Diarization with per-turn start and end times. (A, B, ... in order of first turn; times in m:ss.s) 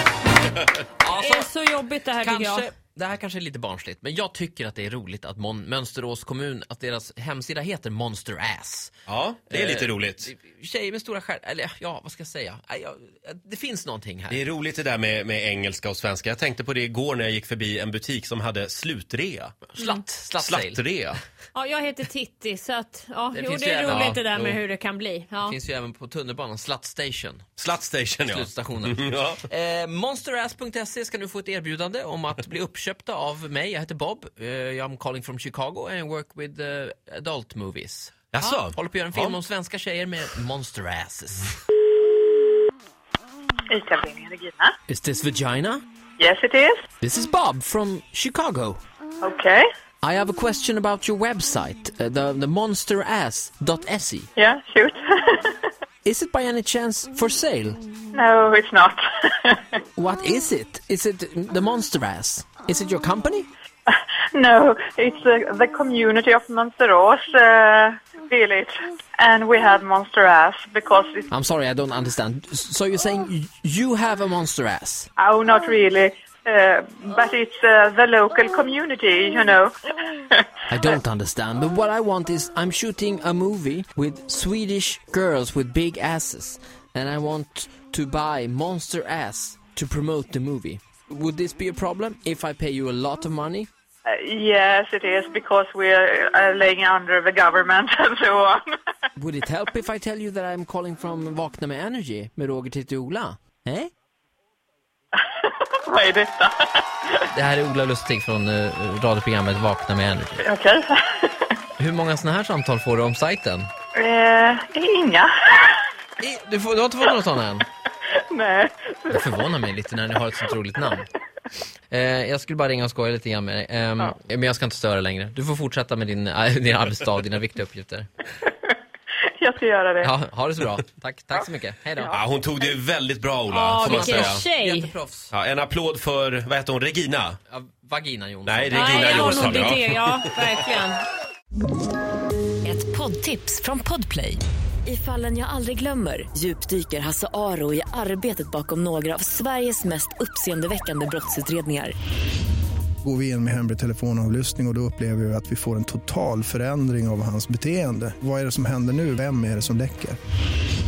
0:01.0-0:01.5 A
0:01.1-0:02.7 B
0:02.2-0:09.0 A
0:09.1-0:10.3 C
0:09.5-0:14.4 A
0:14.3-0:19.6 C
0:19.7-0:20.8 A
0:19.8-0:20.0 B
0:20.4-0:21.2 C
0:21.5-0:25.6 B
0:23.3-0:24.6 A
0:25.4-0:27.6 A
0:27.6-0:29.4 C
0:28.2-0:41.6 A
0:38.3-0:39.4 C
0:43.7-0:44.7 D
0:44.9-0:45.8 A
0:46.2-0:46.8 D
0:47.0-0:48.8 A
0:49.2-0:49.6 D
0:50.0-0:54.3 A
0:54.4-0:55.7 D
0:56.0-0:57.8 A
0:58.1-0:59.8 D
1:00.0-1:03.5 A
1:03.9-1:11.2 D
1:11.3-1:15.1 A
1:15.2-1:19.7 D
1:20.3-1:20.9 D
1:20.7-1:33.7 A
1:34.1-1:38.8 D
1:39.2-1:43.9 A
1:45.2-1:47.2 D
1:47.3-1:50.4 A
1:50.4-1:51.5 D
1:51.8-1:53.7 A
1:53.9-1:55.8 D
1:56.2-1:57.6 A
1:58.3-1:59.2 D
1:59.1-2:01.1 A
2:01.9-2:08.1 A
2:08.4-2:08.8 D
2:09.3-2:10.1 D
2:10.0-2:12.2 A
2:12.1-2:14.4 C
2:13.5-2:14.9 B
2:13.8-2:15.3 A
2:15.3-2:17.4 C
2:17.5-2:19.8 A
2:18.5-2:20.3 C
2:18.7-2:21.0 B
2:22.6-2:31.9 E
2:33.0-2:40.2 F